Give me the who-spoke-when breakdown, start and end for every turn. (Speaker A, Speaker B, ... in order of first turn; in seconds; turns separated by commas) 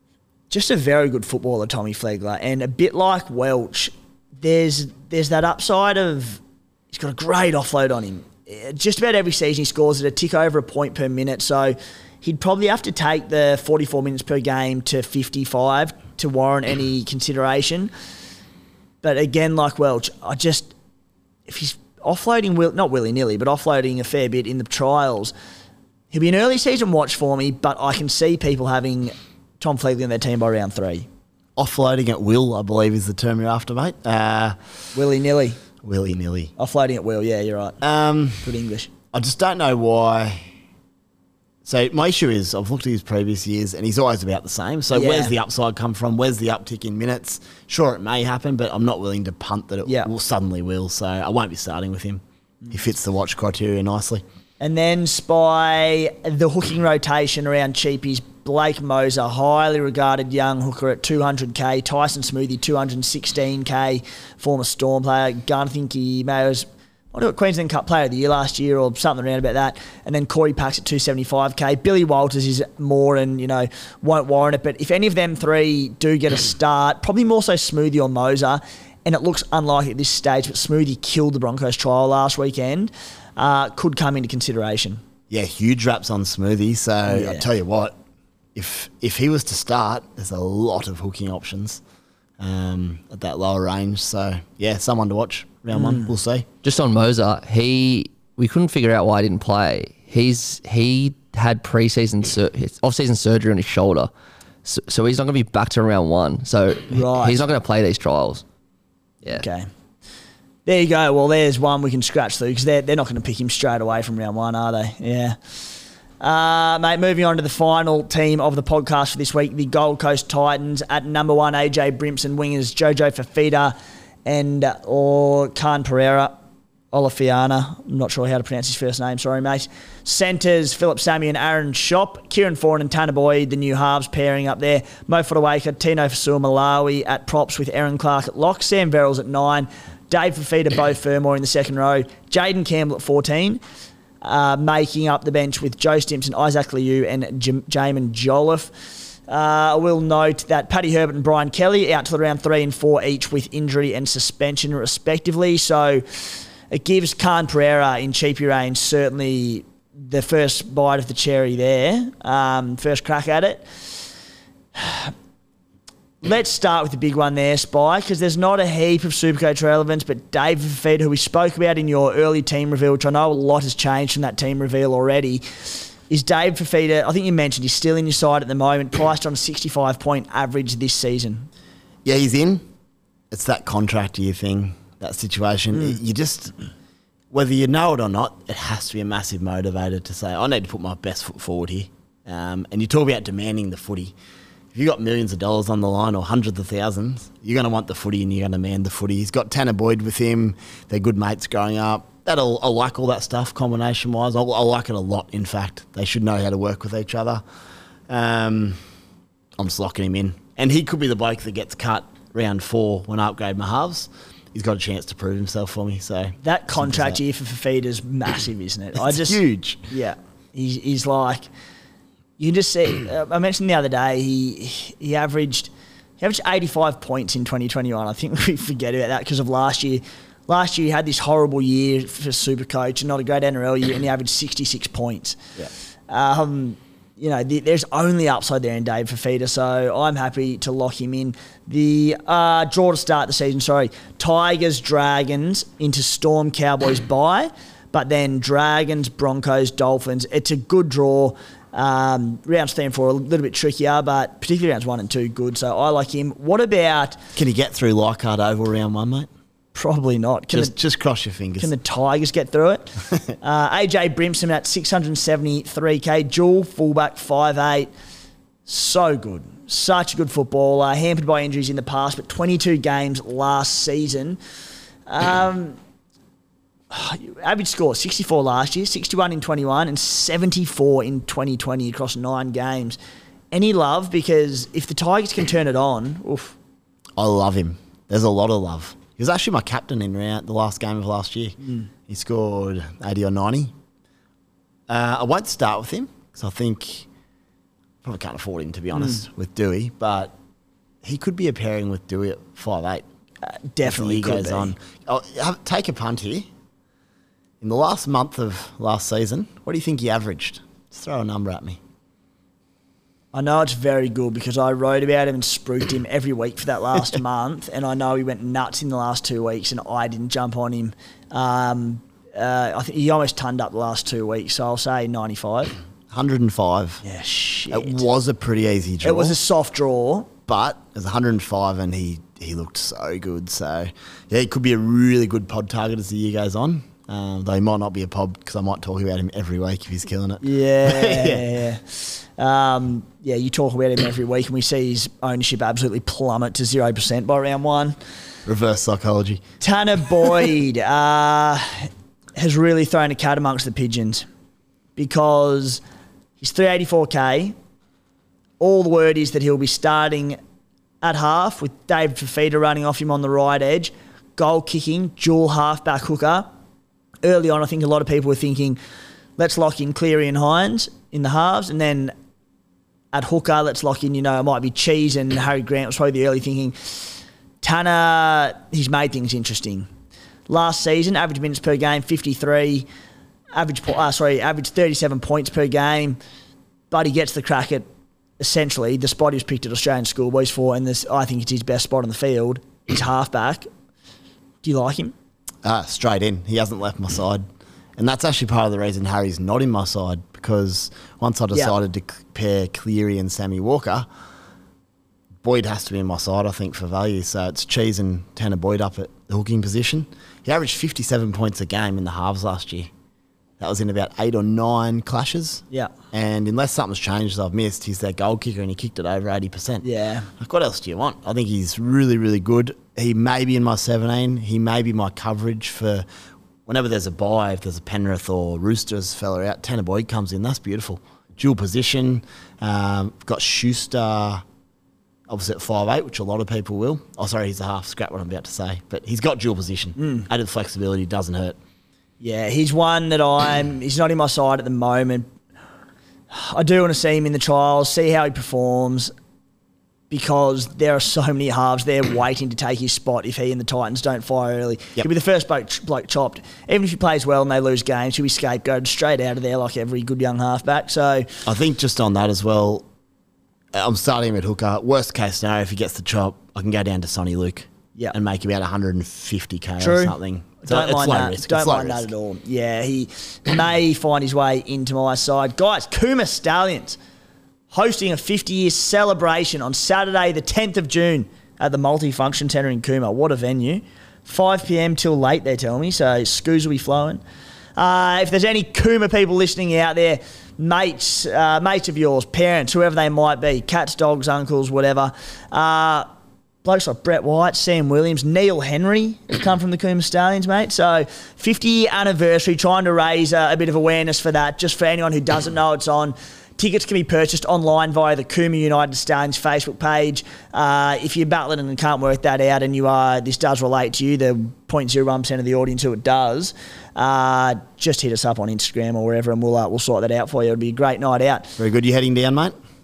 Speaker A: 0.5-17.9, Speaker A: 19.0-20.7, Speaker A: 21.5-25.3, Speaker A: 26.1-31.1, Speaker B: 31.6-34.6, Speaker A: 34.9-35.6, Speaker B: 35.8-36.5, Speaker A: 36.6-37.8, Speaker B: 37.8-38.5, Speaker A: 38.4-38.9, Speaker B: 39.1-40.5, Speaker B: 41.6-54.2, Speaker A: 44.9-45.3, Speaker A: 54.6-85.0, Speaker B: 85.3-88.0, Speaker A: 87.1-87.5, Speaker B: 88.5-91.8, Speaker B: 92.4-96.5, Speaker A: 95.7-96.1, Speaker C: 96.6-104.1, Speaker C: 104.6-108.4, Speaker A: 106.9-107.4, Speaker A: 109.3-109.7, Speaker A: 110.7-115.4, Speaker A: 116.2-123.7, Speaker A: 124.2-126.4, Speaker A: 126.9-143.6, Speaker A: 144.2-148.7, Speaker A: 149.3-163.7, Speaker A: 164.8-165.1, Speaker A: 166.2-181.5, Speaker B: 182.0-182.6, Speaker B: 183.3-186.5, Speaker B: 187.3-194.1, Speaker B: 194.7-207.4, Speaker B: 208.1-208.8, Speaker B: 209.6-217.2, Speaker A: 216.4-219.4, Speaker B: 218.9-219.8, Speaker A: 219.9-221.5, Speaker A: 222.4-235.4, Speaker A: 236.1-257.2, Speaker B: 257.3-259.3, Speaker A: 259.7-260.7, Speaker B: 260.5-261.7, Speaker A: 261.6-267.9, Speaker A: 268.6-274.4, Speaker A: 275.1-275.8, Speaker A: 276.9-283.0, Speaker A: 283.5-286.6, Speaker B: 287.2-293.7, Speaker B: 294.9-297.1, Speaker B: 298.0-300.3, Speaker A: 298.9-299.2, Speaker B: 301.0-303.1, Speaker A: 303.4-304.7, Speaker B: 303.8-306.5, Speaker B: 307.6-311.8, Speaker A: 313.3-325.7, Speaker B: 326.1-327.0, Speaker A: 327.0-328.0, Speaker B: 327.7-329.4, Speaker A: 329.0-330.3, Speaker B: 330.5-341.5, Speaker A: 340.4-348.0, Speaker B: 348.4-349.4, Speaker A: 349.6-354.2, Speaker A: 354.9-355.8, Speaker A: 356.4-357.5, Speaker A: 358.6-360.4, Speaker A: 361.0-366.5, Speaker A: 367.2-368.8, Speaker A: 369.4-372.1, Speaker A: 373.1-379.9, Speaker A: 380.5-382.9, Speaker A: 383.5-386.2, Speaker A: 386.9-387.9, Speaker A: 388.4-393.7, Speaker A: 394.6-395.1, Speaker B: 395.6-397.4, Speaker B: 398.0-404.1, Speaker B: 405.4-412.9, Speaker B: 413.6-426.1, Speaker A: 419.8-420.3, Speaker B: 426.6-434.4, Speaker B: 435.3-441.6, Speaker A: 440.0-440.2, Speaker A: 442.2-445.3, Speaker A: 446.3-449.1, Speaker A: 450.1-461.3, Speaker B: 461.4-462.9, Speaker B: 463.7-472.1, Speaker A: 469.8-477.0, Speaker A: 477.7-487.2, Speaker A: 487.8-496.1, Speaker A: 496.6-521.5, Speaker B: 521.6-522.5